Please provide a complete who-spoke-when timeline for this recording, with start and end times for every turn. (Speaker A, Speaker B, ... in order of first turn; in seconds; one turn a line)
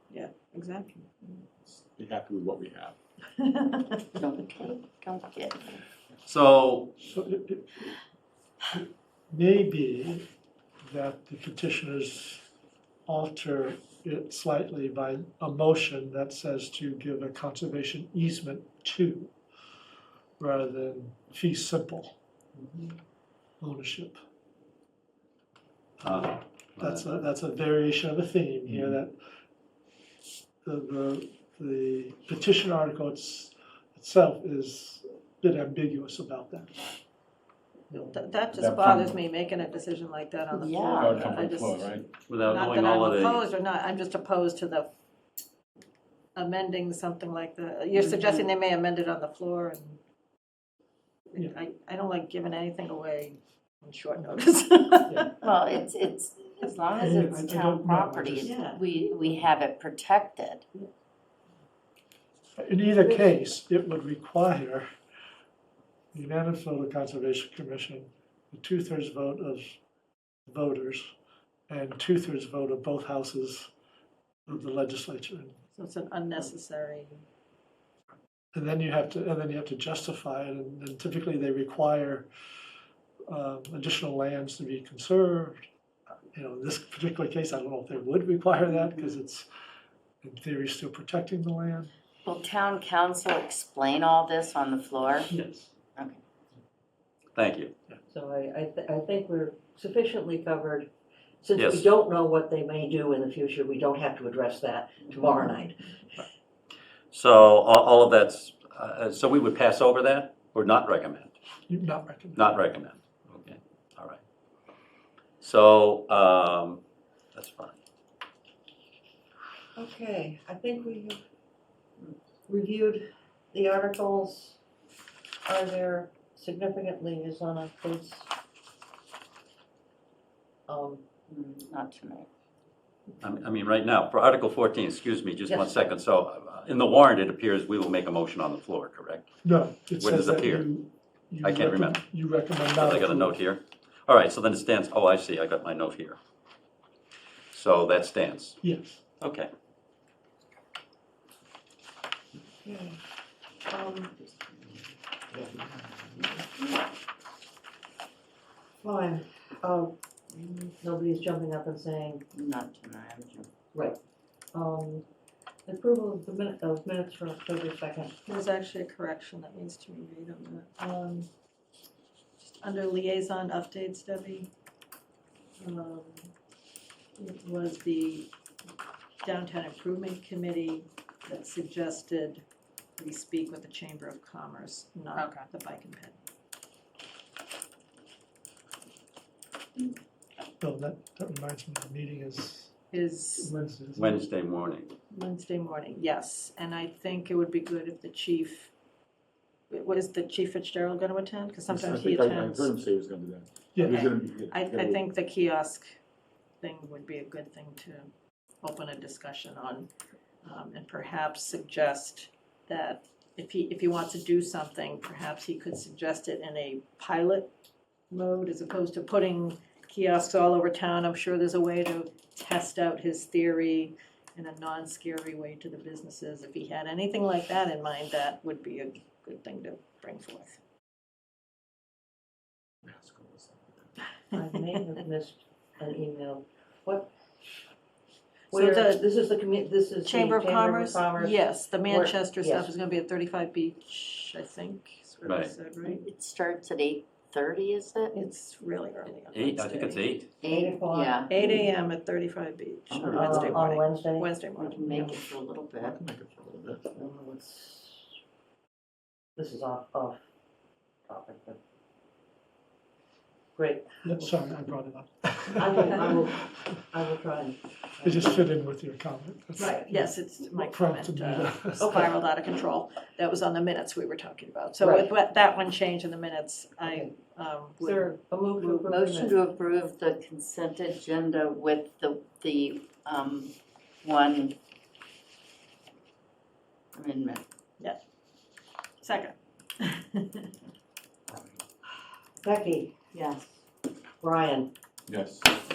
Speaker A: 0.1-1.4
Speaker B: 1.6-3.0
Speaker A: 3.6-4.0
Speaker C: 4.2-5.8
Speaker D: 6.2-6.9
Speaker E: 7.0-8.0
Speaker E: 8.7-10.2
Speaker E: 10.9-12.5
Speaker E: 13.1-19.3
Speaker E: 20.4-22.1
Speaker E: 23.6-24.2
Speaker D: 26.0-27.1
Speaker E: 26.0-29.2
Speaker B: 28.7-28.9
Speaker E: 30.6-36.7
Speaker E: 37.9-38.2
Speaker A: 38.1-44.9
Speaker B: 38.5-39.2
Speaker C: 40.5-41.1
Speaker B: 41.0-42.1
Speaker D: 42.3-43.4
Speaker A: 46.4-50.0
Speaker A: 51.3-55.3
Speaker E: 55.1-55.4
Speaker C: 55.3-60.7
Speaker E: 57.0-58.6
Speaker A: 58.4-58.9
Speaker E: 62.6-64.9
Speaker E: 66.1-69.8
Speaker E: 70.5-71.1
Speaker E: 71.7-73.7
Speaker E: 74.5-75.6
Speaker A: 75.7-77.2
Speaker E: 78.5-82.3
Speaker E: 83.3-85.7
Speaker E: 86.3-89.5
Speaker E: 90.2-91.9
Speaker C: 92.2-95.3
Speaker E: 95.3-95.7
Speaker C: 96.0-96.2
Speaker D: 97.3-97.7
Speaker F: 98.1-100.9
Speaker F: 101.4-105.8
Speaker D: 101.6-101.9
Speaker D: 107.1-111.4
Speaker E: 111.7-112.5
Speaker D: 112.4-114.2
Speaker D: 115.4-116.8
Speaker D: 117.3-117.8
Speaker F: 119.8-121.2
Speaker F: 122.5-124.6
Speaker F: 125.5-128.3
Speaker F: 130.7-131.0
Speaker C: 131.3-132.3
Speaker D: 133.2-139.3
Speaker F: 135.5-135.9
Speaker E: 139.4-143.4
Speaker D: 140.0-140.7
Speaker D: 141.4-142.0
Speaker D: 142.7-146.2
Speaker D: 147.5-148.6
Speaker E: 148.6-149.0
Speaker D: 149.2-149.5
Speaker F: 152.6-153.0
Speaker F: 153.7-154.1
Speaker F: 158.8-162.2
Speaker C: 162.3-163.5
Speaker F: 164.5-165.1
Speaker F: 165.7-168.1
Speaker A: 168.3-170.7
Speaker F: 170.8-171.3
Speaker A: 172.4-174.5
Speaker A: 175.6-176.3
Speaker A: 177.2-178.3
Speaker A: 179.2-182.4
Speaker A: 183.0-186.2
Speaker E: 190.6-192.8
Speaker A: 192.9-193.5
Speaker E: 193.4-194.2
Speaker D: 193.9-194.9
Speaker A: 195.1-198.7
Speaker A: 199.7-202.7
Speaker B: 201.7-205.0
Speaker E: 203.7-204.1
Speaker A: 203.8-205.9
Speaker A: 206.6-208.1
Speaker A: 208.6-209.9
Speaker A: 210.4-217.5
Speaker A: 218.1-230.6
Speaker B: 232.9-233.9
Speaker F: 234.3-237.1
Speaker F: 238.5-242.7
Speaker A: 238.5-239.1
Speaker A: 240.1-246.1
Speaker D: 245.3-245.6
Speaker C: 245.8-248.2
Speaker A: 248.1-250.2
Speaker D: 249.3-250.3
Speaker F: 250.4-251.7
Speaker C: 250.4-251.3
Speaker A: 251.3-255.1
Speaker C: 252.9-253.5
Speaker B: 252.9-253.7
Speaker F: 253.1-254.3
Speaker C: 254.6-256.0
Speaker B: 255.8-257.1
Speaker F: 257.0-258.1
Speaker F: 259.4-260.2
Speaker F: 261.1-261.6
Speaker F: 263.6-264.4
Speaker E: 264.0-266.5
Speaker F: 265.6-268.5
Speaker E: 268.0-272.1
Speaker F: 269.6-269.9
Speaker A: 269.9-278.9
Speaker F: 271.8-272.1
Speaker F: 274.8-275.1
Speaker F: 276.8-277.1
Speaker F: 277.8-279.4
Speaker C: 278.9-284.6
Speaker C: 286.9-287.5
Speaker A: 289.0-290.5
Speaker F: 292.4-292.9
Speaker C: 293.1-293.6
Speaker F: 294.2-294.7
Speaker B: 295.1-295.5